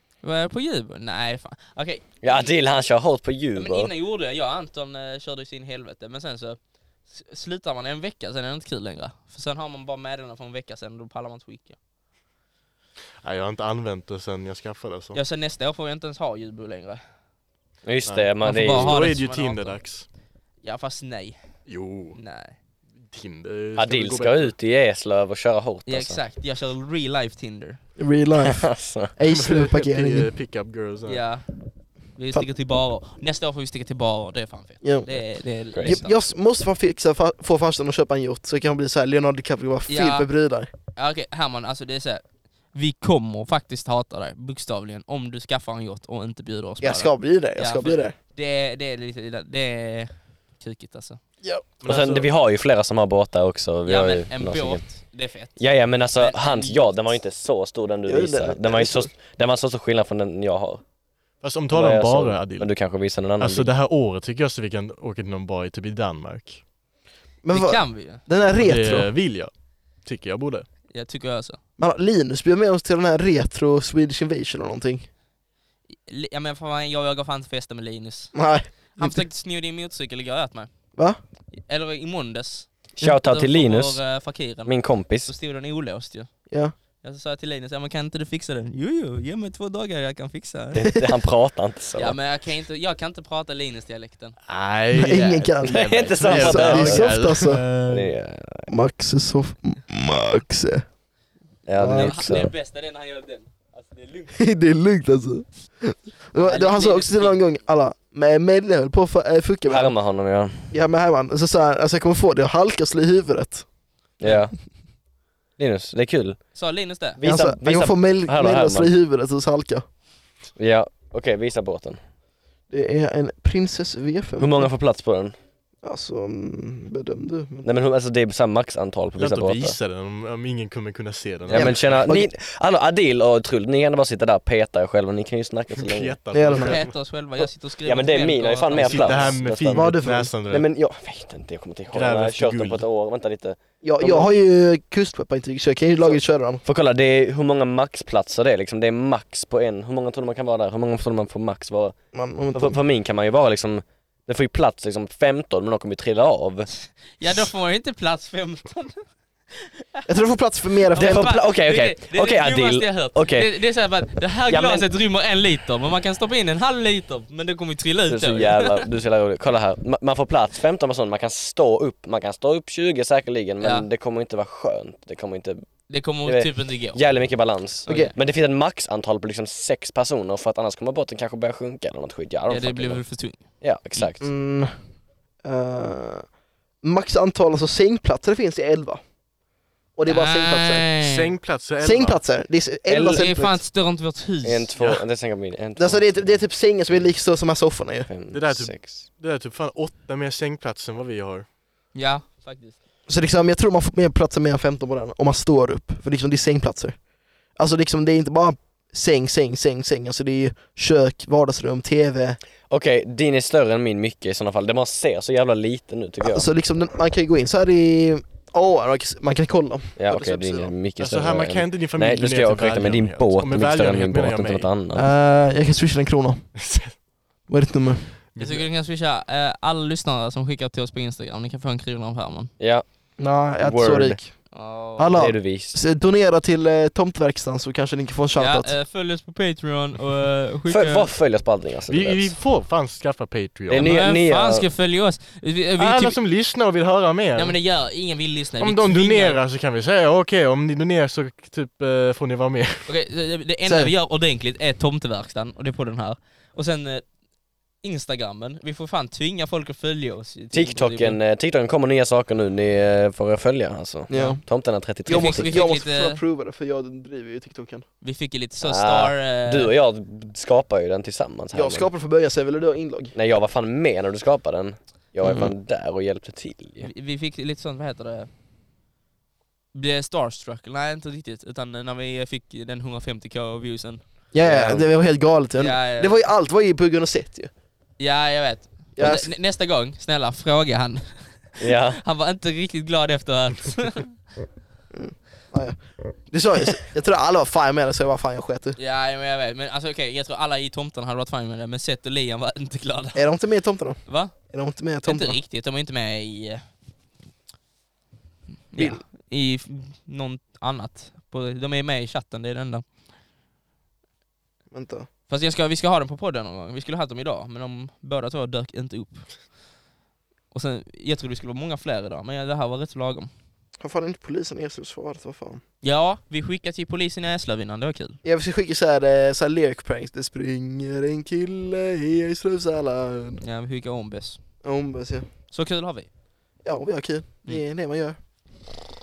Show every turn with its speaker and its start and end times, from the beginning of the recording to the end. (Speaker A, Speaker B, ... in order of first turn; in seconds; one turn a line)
Speaker A: 0.2-2.5
Speaker B: 2.2-3.9
Speaker A: 3.5-11.8
Speaker C: 13.2-15.2
Speaker A: 15.1-17.0
Speaker B: 17.8-19.0
Speaker C: 18.1-20.1
Speaker A: 18.4-19.8
Speaker A: 20.6-21.4
Speaker C: 21.7-22.2
Speaker A: 22.1-22.6
Speaker C: 23.0-24.5
Speaker B: 23.8-26.2
Speaker A: 25.9-27.8
Speaker D: 28.0-30.3
Speaker B: 28.4-29.1
Speaker C: 29.3-31.2
Speaker A: 31.1-31.5
Speaker A: 32.1-36.3
Speaker B: 35.7-36.0
Speaker D: 35.8-40.7
Speaker A: 39.9-40.3
Speaker A: 41.0-51.2
Speaker D: 46.8-48.1
Speaker D: 51.4-51.7
Speaker C: 51.8-52.3
Speaker B: 51.9-54.8
Speaker A: 53.9-56.9
Speaker B: 55.6-60.8
Speaker D: 58.1-59.1
Speaker C: 61.4-62.8
Speaker B: 61.7-63.7
Speaker C: 63.4-66.6
Speaker D: 67.4-69.1
Speaker A: 67.5-68.2
Speaker C: 68.6-70.7
Speaker A: 70.9-71.6
Speaker D: 71.8-75.1
Speaker A: 75.9-78.4
Speaker D: 78.3-79.2
Speaker A: 78.9-80.7
Speaker A: 81.5-86.3
Speaker B: 83.0-84.0
Speaker B: 84.7-85.3
Speaker D: 86.5-86.7
Speaker A: 87.0-90.8
Speaker B: 90.7-92.2
Speaker A: 92.0-94.4
Speaker C: 94.5-98.1
Speaker D: 94.9-97.6
Speaker B: 95.6-97.2
Speaker B: 97.9-98.7
Speaker D: 98.7-100.9
Speaker B: 101.7-102.5
Speaker D: 101.7-102.3
Speaker A: 101.7-104.4
Speaker D: 104.3-109.9
Speaker A: 106.4-107.4
Speaker B: 109.7-110.7
Speaker D: 110.7-113.7
Speaker B: 114.2-114.5
Speaker A: 114.2-114.5
Speaker B: 115.6-116.4
Speaker A: 116.5-117.2
Speaker B: 117.2-118.9
Speaker D: 117.2-119.8
Speaker B: 120.6-122.0
Speaker D: 122.7-124.7
Speaker B: 124.4-125.3
Speaker D: 125.8-127.7
Speaker B: 127.6-129.8
Speaker C: 129.2-132.1
Speaker D: 131.5-132.3
Speaker B: 131.5-136.2
Speaker C: 135.7-136.9
Speaker D: 136.3-136.8
Speaker A: 136.5-139.4
Speaker B: 137.8-139.9
Speaker C: 138.7-140.7
Speaker D: 139.7-140.3
Speaker B: 140.5-144.3
Speaker C: 141.9-142.8
Speaker D: 143.8-146.6
Speaker B: 146.0-152.0
Speaker D: 152.1-152.8
Speaker B: 152.5-156.7
Speaker A: 157.2-160.1
Speaker D: 160.1-161.3
Speaker A: 160.9-168.9
Speaker B: 161.0-163.5
Speaker B: 164.5-164.9
Speaker B: 168.1-175.7
Speaker A: 173.6-173.9
Speaker A: 175.9-177.1
Speaker B: 176.2-183.0
Speaker A: 177.8-178.1
Speaker D: 177.9-178.1
Speaker A: 182.5-184.1
Speaker B: 183.6-184.3
Speaker D: 184.2-184.8
Speaker D: 185.4-186.3
Speaker D: 186.8-189.0
Speaker D: 190.0-190.8
Speaker A: 190.1-191.3
Speaker C: 191.0-192.2
Speaker D: 191.8-193.6
Speaker B: 192.9-193.3
Speaker A: 193.1-194.7
Speaker B: 194.4-196.4
Speaker C: 194.8-195.0
Speaker D: 195.8-198.1
Speaker B: 198.1-199.1
Speaker C: 198.3-201.5
Speaker A: 201.9-202.8
Speaker D: 203.1-207.0
Speaker D: 207.6-212.4
Speaker B: 212.7-216.5
Speaker D: 216.2-220.8
Speaker B: 220.0-225.1
Speaker C: 221.0-224.7
Speaker D: 224.9-226.4
Speaker C: 226.6-226.9
Speaker D: 227.5-228.2
Speaker C: 228.3-228.7
Speaker A: 228.4-232.5
Speaker B: 232.6-232.8
Speaker D: 233.2-238.8
Speaker B: 233.6-234.2
Speaker A: 234.5-235.2
Speaker B: 235.2-235.8
Speaker A: 238.4-241.1
Speaker B: 240.7-242.3
Speaker C: 241.9-243.9
Speaker B: 243.7-244.7
Speaker A: 243.7-246.2
Speaker C: 245.8-247.6
Speaker A: 247.4-249.4
Speaker C: 248.6-252.9
Speaker A: 252.9-257.1
Speaker D: 253.7-253.9
Speaker A: 257.8-261.2
Speaker B: 260.5-265.6
Speaker D: 264.1-264.4
Speaker A: 264.1-264.4
Speaker D: 265.1-267.9
Speaker A: 265.1-266.2
Speaker A: 268.0-269.7
Speaker B: 268.6-271.9
Speaker D: 271.5-273.1
Speaker B: 273.1-276.9
Speaker D: 275.2-275.6
Speaker A: 276.8-278.3
Speaker A: 279.7-284.1
Speaker D: 284.3-287.5
Speaker B: 284.4-284.9
Speaker A: 285.6-286.1
Speaker A: 288.0-294.2
Speaker D: 289.0-289.3
Speaker B: 291.6-292.0
Speaker D: 294.9-298.8
Speaker A: 298.8-303.3
Speaker D: 303.1-305.4
Speaker A: 304.1-304.3
Speaker A: 305.0-306.6
Speaker A: 308.7-312.9
Speaker D: 308.8-309.0
Speaker D: 314.7-315.1
Speaker A: 315.3-319.5
Speaker A: 320.5-323.3
Speaker D: 323.8-325.6
Speaker A: 325.8-328.2
Speaker D: 328.2-333.4
Speaker A: 333.4-334.4
Speaker D: 334.6-335.3
Speaker A: 335.5-336.1
Speaker D: 336.6-338.2